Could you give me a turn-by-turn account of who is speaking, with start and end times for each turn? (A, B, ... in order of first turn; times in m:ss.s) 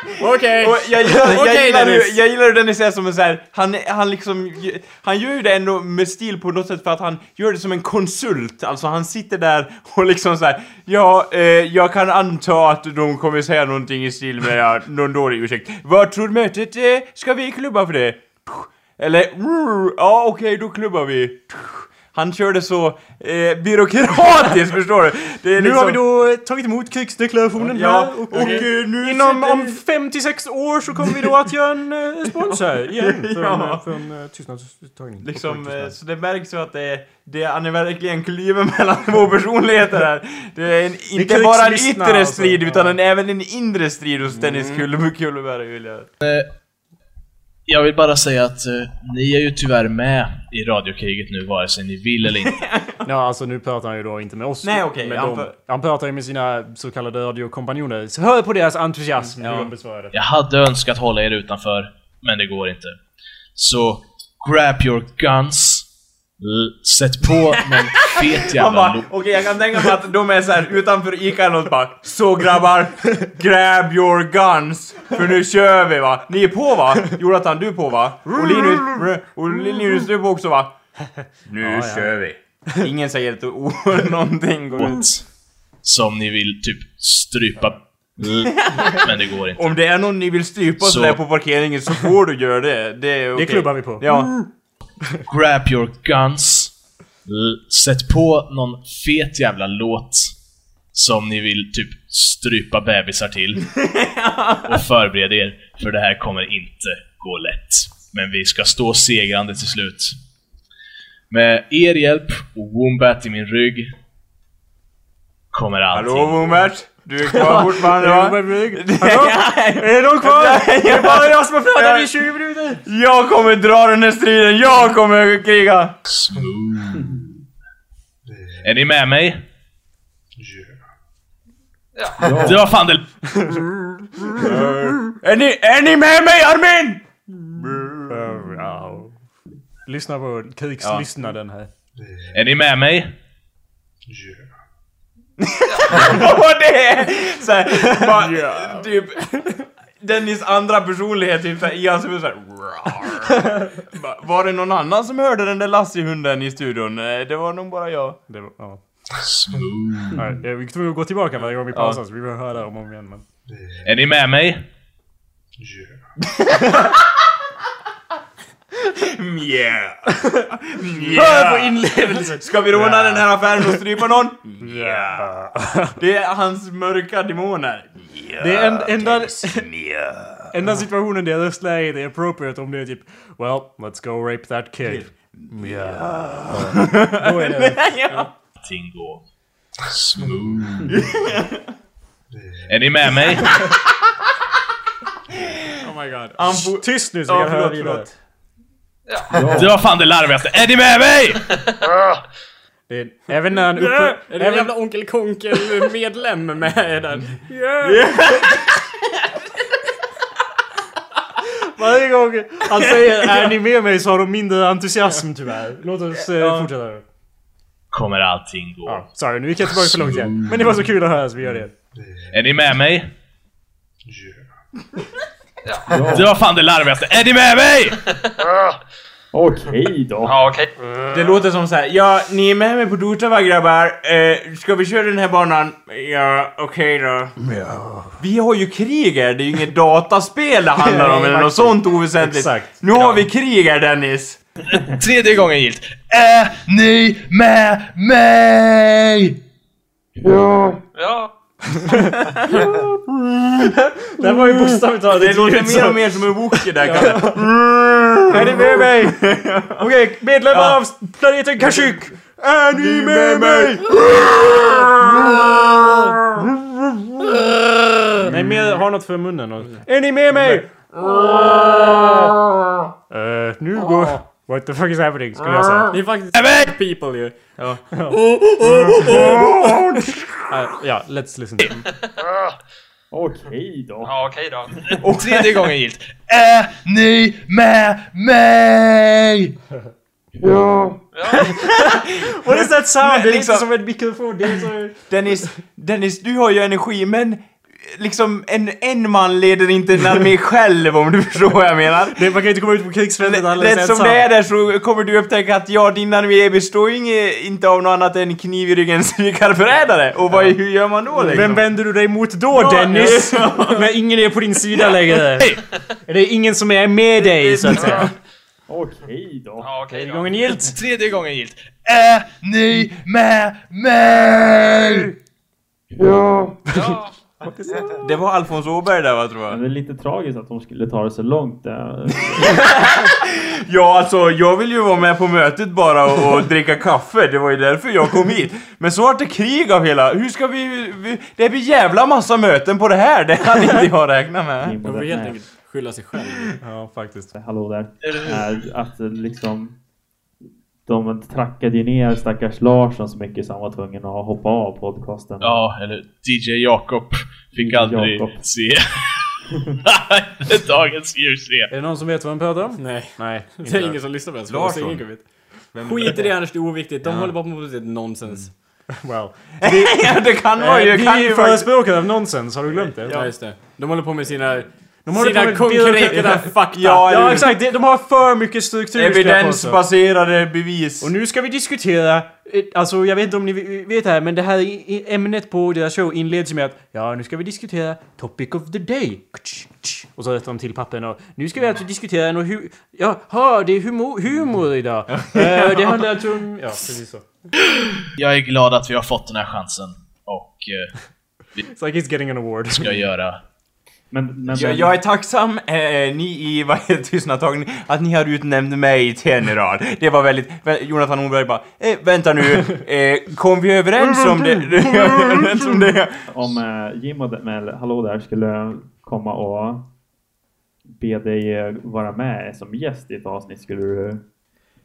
0:00.2-0:02.1 A
0:00.6-0:26.0 B
0:25.6-0:36.0 C
0:27.6-0:29.8 B
0:32.4-0:33.9 B
0:35.2-0:46.1 B
0:41.2-0:43.0 C
0:44.4-0:44.8 A
0:46.2-0:46.5 D
0:47.7-0:52.6 D
0:52.5-0:53.0 B
0:53.0-1:00.2 C
0:54.6-0:55.5 B
0:59.4-0:59.7 B
1:00.1-1:03.0 D
1:03.6-1:05.9 D
1:06.4-1:09.1 D
1:07.7-1:20.8 B
1:18.3-1:18.9 C
1:21.5-1:25.0 B
1:21.6-1:22.1 C
1:24.8-1:25.3 D
1:25.8-1:29.8 D
1:28.5-1:29.0 B
1:29.6-1:34.4 B
1:30.8-1:31.2 D
1:33.4-1:34.5 C
1:35.3-1:36.7 D
1:37.3-1:40.4 D
1:40.9-1:43.7 D
1:43.7-1:44.8 B
1:44.7-1:50.2 D
1:51.3-1:53.9 D
1:55.5-1:56.4 D
1:55.9-2:02.3 B
1:57.3-2:02.8 C
2:02.8-2:06.0 B
2:06.1-2:07.2 D
2:08.6-2:09.4 D
2:12.0-2:12.4 E
2:12.2-2:12.7 F
2:12.4-2:13.3 D
2:14.3-2:15.0 C
2:14.4-2:18.2 B
2:18.1-2:19.1 C
2:19.9-2:21.7 C
2:20.8-2:21.1 B
2:22.3-2:23.2 D
2:25.4-2:29.3 B
2:28.0-2:29.3 A
2:30.0-2:38.2 B
2:38.3-2:38.8 C
2:39.2-2:40.2 D
2:40.1-2:43.2 C
2:41.7-2:42.0 B
2:43.8-2:44.7 D
2:46.2-2:47.3 B
2:48.8-2:55.3 B
2:50.9-2:53.8 C
2:54.6-2:56.0 C
2:56.0-3:00.7 B
2:58.4-2:59.7 C
3:00.5-3:07.8 C
3:04.8-3:08.3 B
3:08.6-3:09.2 D
3:09.9-3:11.0 D
3:10.9-3:11.7 B
3:12.7-3:13.7 D
3:15.8-3:16.5 A
3:16.4-3:18.1 B
3:16.5-3:18.1 C
3:19.1-3:19.4 E
3:19.3-3:19.8 F
3:19.5-3:21.6 D
3:22.9-3:24.8 C
3:23.8-3:27.4 A
3:27.5-3:28.0 C
3:27.8-3:29.4 B
3:31.8-3:37.0 C
3:32.7-3:33.6 B
3:36.3-3:36.7 B
3:37.9-3:39.1 D
3:38.9-3:41.7 C
3:39.6-3:40.8 D
3:42.3-3:43.1 D
3:45.6-3:46.1 E
3:45.9-3:46.4 F
3:46.1-3:48.0 D
3:48.0-3:48.7 E
3:49.3-3:50.4 F
3:50.2-3:51.4 E
3:51.1-3:57.4 B
3:57.4-3:58.1 C
3:58.2-4:04.4 B
4:00.8-4:03.2 C
4:04.9-4:09.4 D
4:10.2-4:10.8 F
4:11.0-4:11.3 E
4:11.7-4:12.2 C
4:13.4-4:17.4 C
4:15.1-4:19.8 B
4:18.3-4:19.3 C
4:19.8-4:23.9 C
4:20.5-4:20.8 B
4:21.6-4:22.0 B
4:22.8-4:23.9 B
4:28.2-4:30.7 C
4:33.1-4:35.9 C
4:35.9-4:37.4 A
4:36.3-4:36.7 D
4:37.6-4:37.8 B
4:37.9-4:38.2 C
4:39.0-4:39.4 D
4:40.5-4:41.8 C
4:41.8-4:42.2 E
4:43.1-4:44.1 F
4:44.0-4:44.8 E
4:44.9-4:49.5 D
4:45.0-4:45.7 B
4:50.4-4:51.0 F
4:51.2-4:51.5 E
4:51.3-4:53.7 B
4:51.8-4:55.1 C
4:55.1-5:02.3 B
5:02.2-5:04.3 C
5:03.2-5:11.6 B
5:11.2-5:18.1 C
5:12.5-5:13.9 B
5:17.2-5:18.1 B
5:18.7-5:19.7 F
5:19.6-5:20.4 E
5:19.9-5:20.7 C
5:20.6-5:25.2 D
5:26.0-5:26.8 F
5:26.7-5:27.1 E
5:27.5-5:27.9 C
5:28.0-5:29.6 B
5:29.5-5:32.8 F
5:32.4-5:44.8 B
5:44.6-5:45.4 F
5:44.8-5:46.6 A
5:46.6-5:47.4 C
5:47.4-5:49.8 F
5:48.0-5:48.4 D
5:50.9-5:55.6 F
5:55.4-6:01.7 D
5:57.6-5:58.4 F
6:01.7-6:04.0 C
6:02.8-6:08.5 A
6:04.5-6:07.4 B
6:09.0-6:13.2 C
6:09.6-6:11.8 B
6:12.8-6:13.4 B
6:13.1-6:17.4 A
6:15.1-6:19.8 C
6:16.1-6:17.5 B
6:18.9-6:21.1 B
6:21.0-6:37.2 C
6:35.1-6:36.0 B
6:38.2-6:41.0 D
6:41.7-6:42.8 C
6:42.8-6:43.4 D
6:44.1-6:45.0 F
6:44.5-6:56.2 B
6:54.4-6:54.7 C
6:56.3-6:59.8 F
7:00.9-7:04.2 F